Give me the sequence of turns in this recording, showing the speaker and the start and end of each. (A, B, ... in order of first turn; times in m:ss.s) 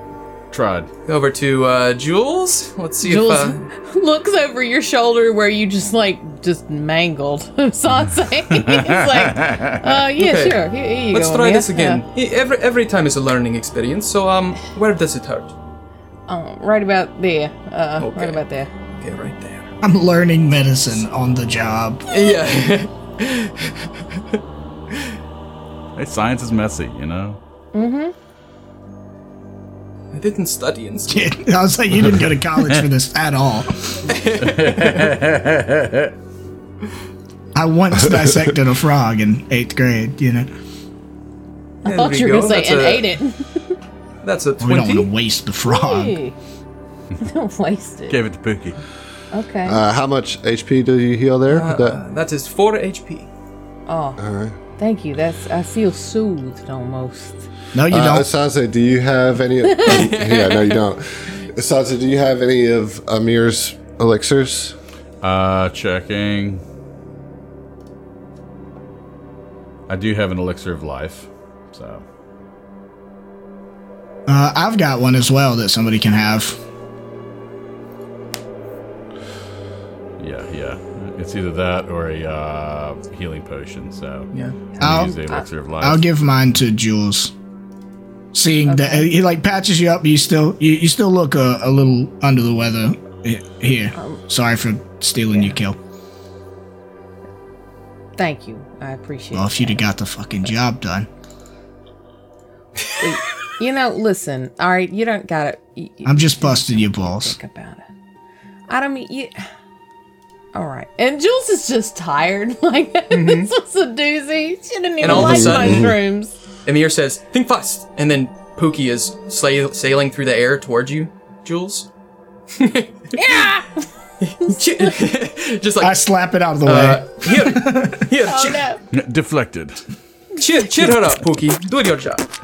0:00.5-0:00.9 A
0:01.0-0:03.6 B
0:03.0-0:12.0 C
0:08.5-0:09.8 A
0:10.2-0:15.5 B
0:16.3-0:18.7 C
0:18.0-0:18.4 B
0:19.0-0:19.7 B
0:19.8-0:22.0 D
0:22.1-0:24.4 B
0:24.9-0:25.2 B
0:26.0-0:27.4 A
0:27.7-0:28.1 C
0:30.1-0:31.4 B
0:31.1-0:34.0 D
0:34.1-0:35.1 B
0:34.4-0:36.1 A
0:37.5-0:40.5 D
0:41.8-0:43.7 C
0:41.8-0:43.1 B
0:44.2-0:45.1 B
0:44.6-0:46.2 D
0:45.6-0:46.3 C
0:47.2-0:48.2 C
0:48.1-0:48.8 A
0:49.3-0:49.8 C
0:49.6-0:52.0 E
0:51.5-0:53.3 B
0:53.9-0:54.2 C
0:54.2-0:54.6 E
0:54.8-0:57.5 C
0:57.7-0:58.3 D
0:57.9-1:04.7 E
0:59.6-0:59.9 C
0:59.8-1:00.8 B
1:05.2-1:06.6 A
1:09.9-1:12.0 A
1:14.3-1:16.6 D
1:20.2-1:26.0 A
1:24.3-1:24.6 B
1:24.8-1:25.2 D
1:24.8-1:25.4 C
1:25.8-1:27.3 D
1:28.3-1:35.8 D
1:28.6-1:29.1 C
1:35.3-1:35.5 C
1:38.2-1:39.8 C
1:39.3-1:41.1 D
1:43.0-1:47.9 C
1:46.0-1:47.4 D
1:48.7-1:49.5 C
1:50.5-1:56.3 C
1:53.1-1:53.5 B
1:55.0-1:56.0 B
1:55.1-1:55.9 E
1:56.6-2:01.9 B
2:02.5-2:03.1 B
2:03.1-2:03.8 C
2:04.2-2:06.0 B
2:04.4-2:04.9 C
2:05.8-2:08.0 D
2:06.6-2:08.6 B
2:08.3-2:08.8 C
2:08.9-2:09.8 A
2:10.4-2:12.2 B